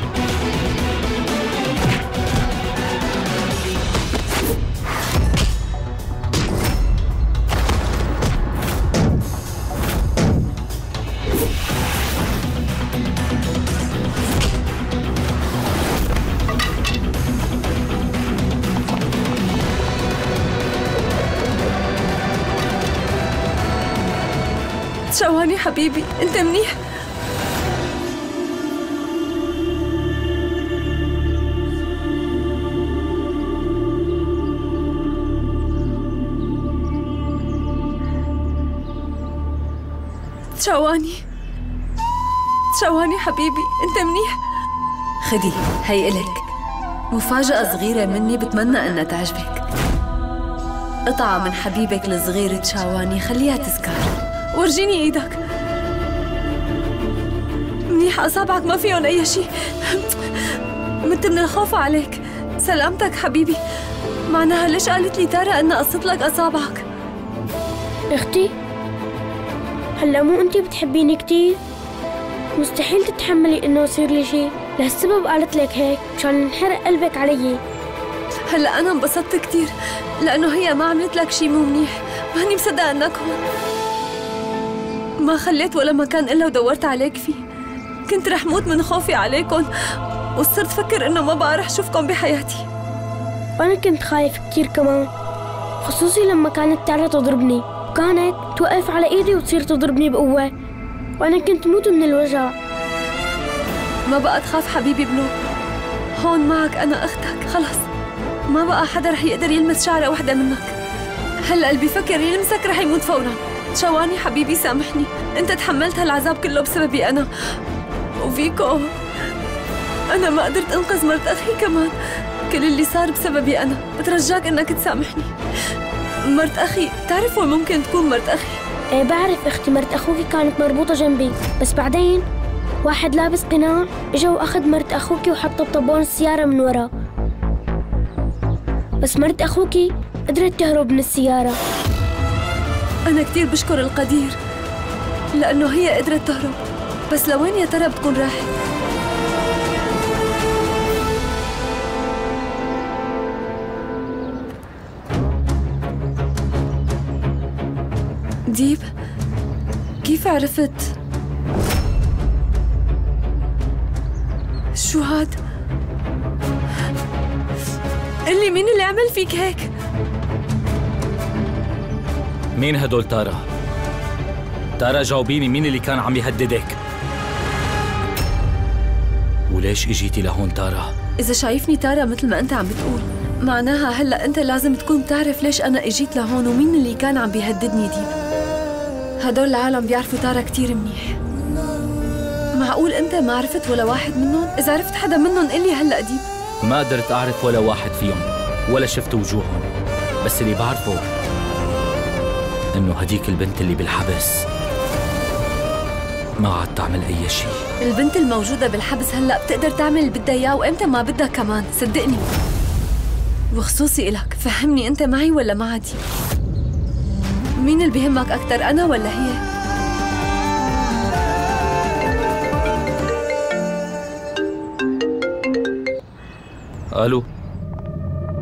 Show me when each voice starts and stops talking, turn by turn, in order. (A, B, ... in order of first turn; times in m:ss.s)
0:25.1-0:26.8 A
0:40.6-0:41.2 A
0:42.8-0:44.4 A
0:45.2-0:46.4 A
0:47.1-0:49.6 A
0:51.1-0:55.4 A
0:57.9-1:03.6 A
1:04.3-1:06.8 A
1:08.1-1:08.5 B
1:10.0-1:11.6 B
1:12.6-1:17.6 B
1:18.5-1:23.4 A
1:25.2-1:27.4 A
1:28.1-1:29.7 A
1:30.4-1:32.6 A
1:33.6-1:35.1 B
1:35.8-1:40.5 B
1:41.2-1:42.5 B
1:44.1-1:45.3 A
1:46.2-1:47.8 A
1:48.5-1:50.7 A
1:51.5-1:57.3 A
1:58.2-1:58.9 A
2:00.1-2:01.9 A
2:02.5-2:05.3 A
2:06.3-2:08.6 A
2:08.9-2:12.2 B
2:12.8-2:16.9 B
2:19.0-2:21.6 B
2:23.1-2:24.4 A
2:25.3-2:26.6 A
2:27.1-2:28.5 A
2:38.5-2:38.8 A
2:40.0-2:40.9 A
2:44.8-2:45.4 A
2:48.3-2:49.7 A
2:52.6-2:53.4 C
2:54.8-2:56.8 C
2:59.5-3:00.9 C
3:01.2-3:08.1 A
3:09.2-3:11.1 A
3:12.6-3:16.2 A
3:16.6-3:19.7 C
3:20.2-3:21.0 C
3:22.7-3:24.4 C
3:26.4-3:27.6 C
3:27.8-3:32.2 A
3:33.5-3:36.0 A
3:37.6-3:39.4 A
3:46.9-3:47.3 C